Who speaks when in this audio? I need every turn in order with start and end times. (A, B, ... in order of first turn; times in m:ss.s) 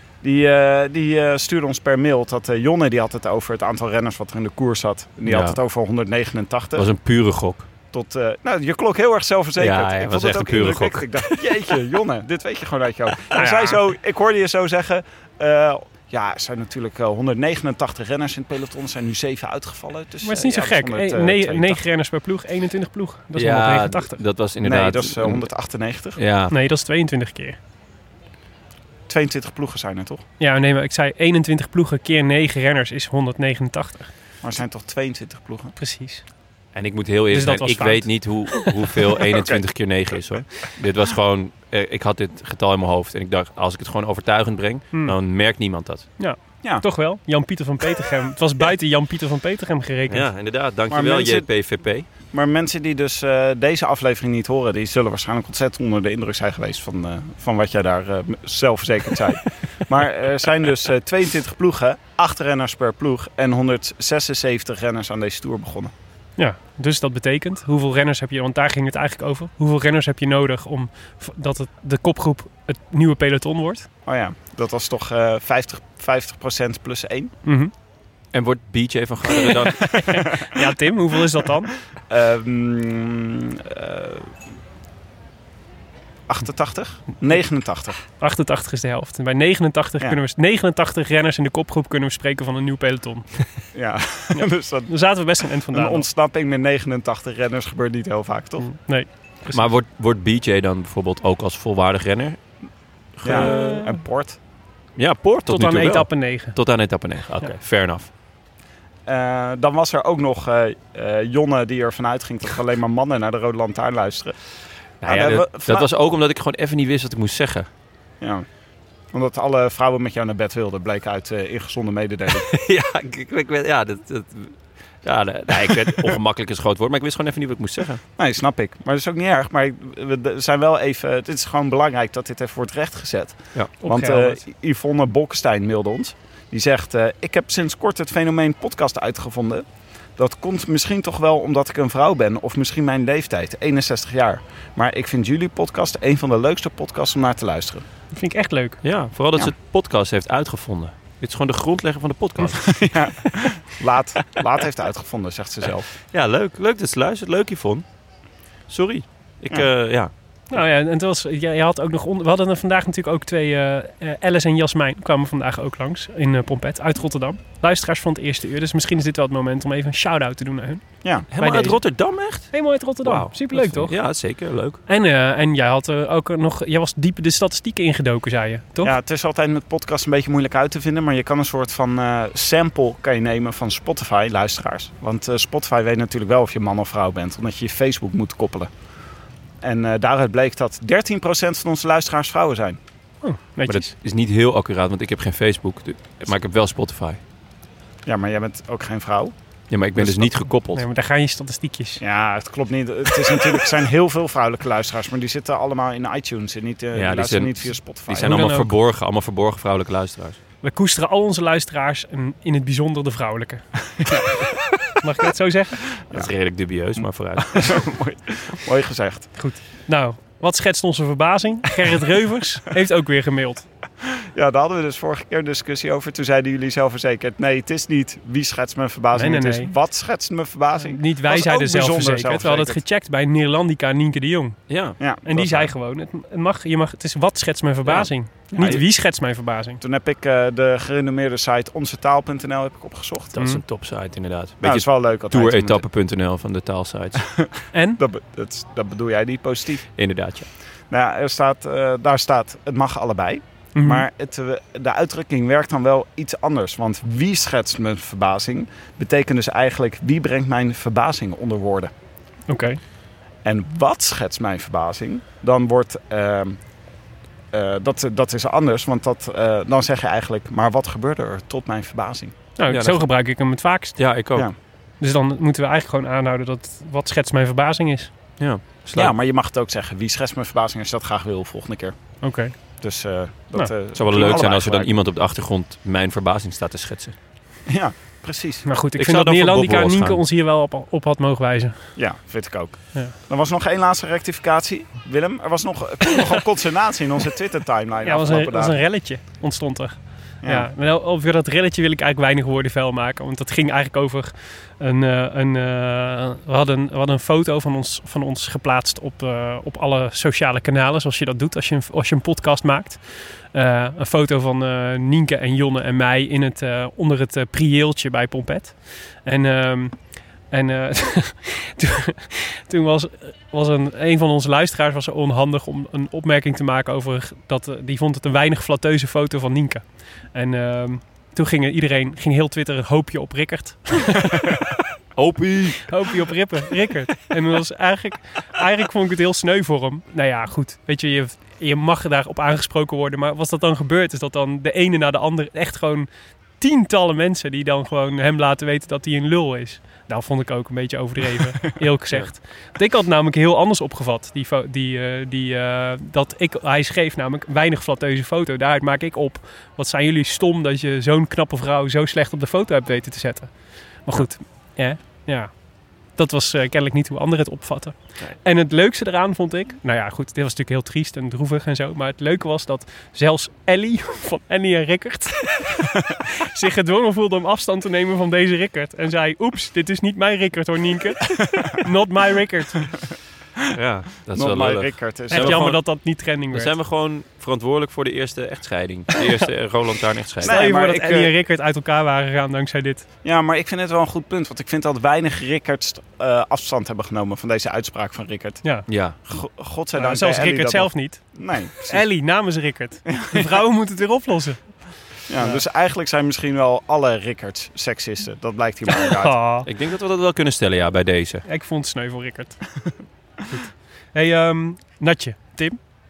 0:00.2-0:06.9 A
0:05.2-0:05.6 B
0:06.7-0:07.7 B
0:07.9-0:21.8 A
0:09.6-0:11.4 B
0:13.3-0:13.8 C
0:20.2-0:24.2 C
0:23.4-0:25.4 B
0:24.6-0:26.2 A
0:26.2-0:26.5 B
0:26.5-0:27.6 C
0:29.1-0:30.2 A
0:30.4-0:34.1 C
0:34.4-0:35.7 A
0:35.8-0:36.2 C
0:36.7-0:46.1 B
0:37.3-0:38.7 C
0:39.2-0:39.6 A
0:46.2-0:50.3 C
0:50.1-0:52.0 B
0:50.9-0:51.5 A
0:52.3-1:05.9 A
1:06.4-1:13.9 C
1:14.0-1:17.3 A
1:17.4-1:17.7 C
1:18.3-1:20.0 B
1:19.7-1:21.7 C
1:19.9-1:20.5 A
1:22.1-1:24.4 A
1:26.3-1:28.0 A
1:28.2-1:33.3 C
1:33.7-1:35.2 A
1:34.3-1:36.0 C
1:35.7-1:38.7 A
1:38.6-1:39.7 C
1:39.5-1:42.4 B
1:43.2-1:43.8 B
1:43.2-1:44.4 A
1:43.2-1:43.9 C
1:45.0-1:48.1 B
1:45.5-1:46.6 C
1:49.1-1:54.4 A
1:55.0-1:57.7 B
1:55.0-1:55.9 A
1:58.2-1:58.4 A
1:59.1-2:02.5 A
2:02.4-2:08.0 B
2:08.2-2:19.6 A
2:13.8-2:14.4 C
2:20.2-2:27.8 A
2:28.1-2:28.8 C
2:28.8-2:33.2 B
2:32.4-2:35.9 A
2:36.1-2:37.8 B
2:38.7-2:40.1 B
2:40.5-2:51.8 C
2:51.3-2:54.8 B
2:52.5-2:54.0 C
2:54.9-2:58.9 C
2:58.8-3:08.7 A
3:09.6-3:12.8 A
3:13.2-3:13.9 C
3:13.7-3:17.2 B
3:18.0-3:19.3 A
3:19.7-3:20.8 B
3:20.0-3:20.4 A
3:20.7-3:22.0 C
3:22.0-3:28.3 A
3:26.9-3:30.4 B
3:28.2-3:28.7 C
3:30.6-3:33.7 C
3:34.0-3:34.4 A
3:35.0-3:35.9 C
3:36.1-3:37.9 B
3:37.0-3:39.3 A
3:39.3-3:43.6 C
3:44.1-3:52.8 A
3:49.1-3:49.7 C
3:50.8-3:54.6 C
3:54.7-3:55.0 B
3:55.0-3:55.7 A
3:55.2-3:59.8 C
3:57.8-3:58.8 B
3:58.5-3:58.8 A
3:59.8-4:03.3 A
4:03.3-4:07.3 B
4:04.6-4:05.8 A
4:07.2-4:09.9 A
4:07.7-4:08.0 C
4:10.0-4:10.5 B
4:10.9-4:21.9 A
4:13.8-4:14.0 C
4:22.5-4:22.8 C
4:23.4-4:26.6 A
4:27.5-4:32.3 A
4:32.6-4:34.0 C
4:32.7-4:33.2 B
4:34.0-4:34.5 B
4:35.0-4:38.1 C
4:38.4-4:39.1 B
4:38.9-4:42.0 A
4:42.2-4:42.5 C
4:42.8-4:44.9 A
4:43.9-4:47.1 B
4:47.7-4:48.6 A
4:48.6-4:51.9 C
4:49.0-4:50.2 B
4:52.0-4:58.9 A
4:58.0-5:20.0 C
5:00.4-5:00.7 A
5:20.5-5:34.6 C
5:35.2-5:36.1 B
5:35.8-5:46.1 C
5:46.6-6:05.5 C
6:06.1-6:22.9 C
6:23.7-6:30.5 B
6:24.3-6:25.7 A
6:25.3-6:26.7 C
6:30.4-6:31.3 A
6:30.4-6:33.0 C
6:33.2-6:38.6 A
6:38.9-6:39.2 B
6:39.2-6:42.0 A
6:39.9-6:45.6 C
6:43.0-6:43.6 A
6:45.3-6:49.4 A
6:48.9-6:49.7 C
6:49.6-6:51.4 B
6:51.4-6:52.6 C
6:53.5-6:55.8 C